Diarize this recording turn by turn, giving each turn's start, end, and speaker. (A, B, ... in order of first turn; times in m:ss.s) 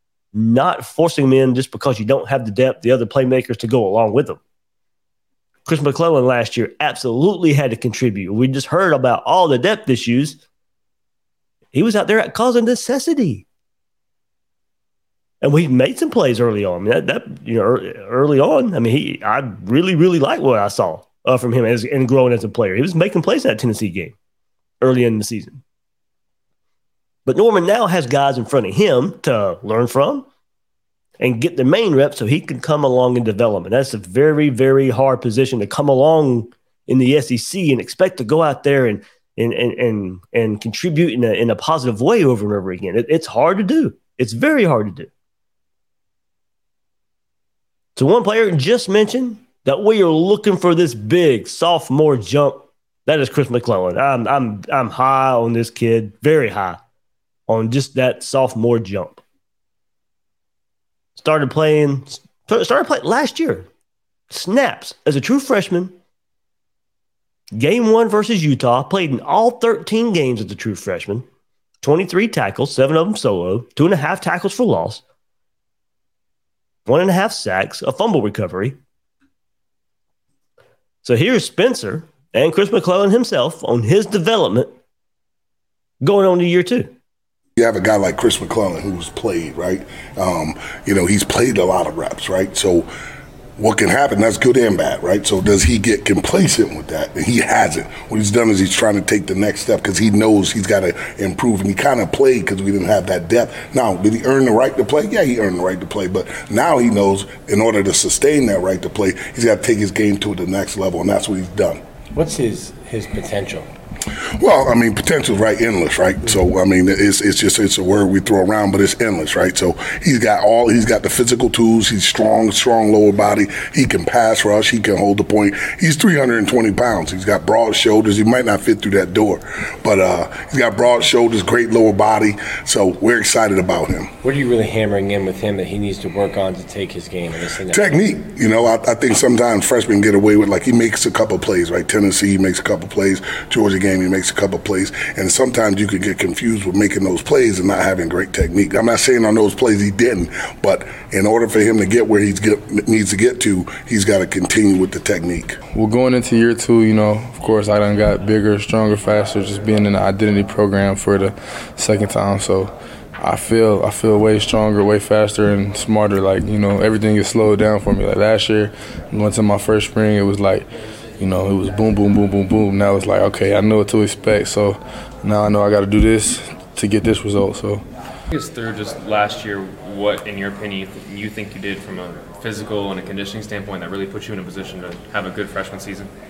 0:00.3-0:04.4 A
0:05.6-0:10.4 A
0:11.7-0:13.4 A
0:15.4-0:24.1 A
0:24.8-0:25.6 A
0:27.2-0:30.3 A
0:31.2-0:45.1 A
0:48.0-0:56.8 A
0:57.5-0:59.2 A
1:01.2-1:03.7 A
1:04.3-1:05.9 A
1:07.5-1:11.2 A
1:11.8-1:15.0 A
1:16.9-1:18.8 A
1:21.0-1:24.7 A
1:26.0-1:26.9 A
1:27.6-1:32.9 B
1:33.6-1:51.8 B
1:52.1-1:53.7 C
1:54.4-2:14.1 B
2:14.2-2:18.0 C
2:17.7-2:35.6 B
2:35.7-2:57.8 D
2:58.3-3:06.1 E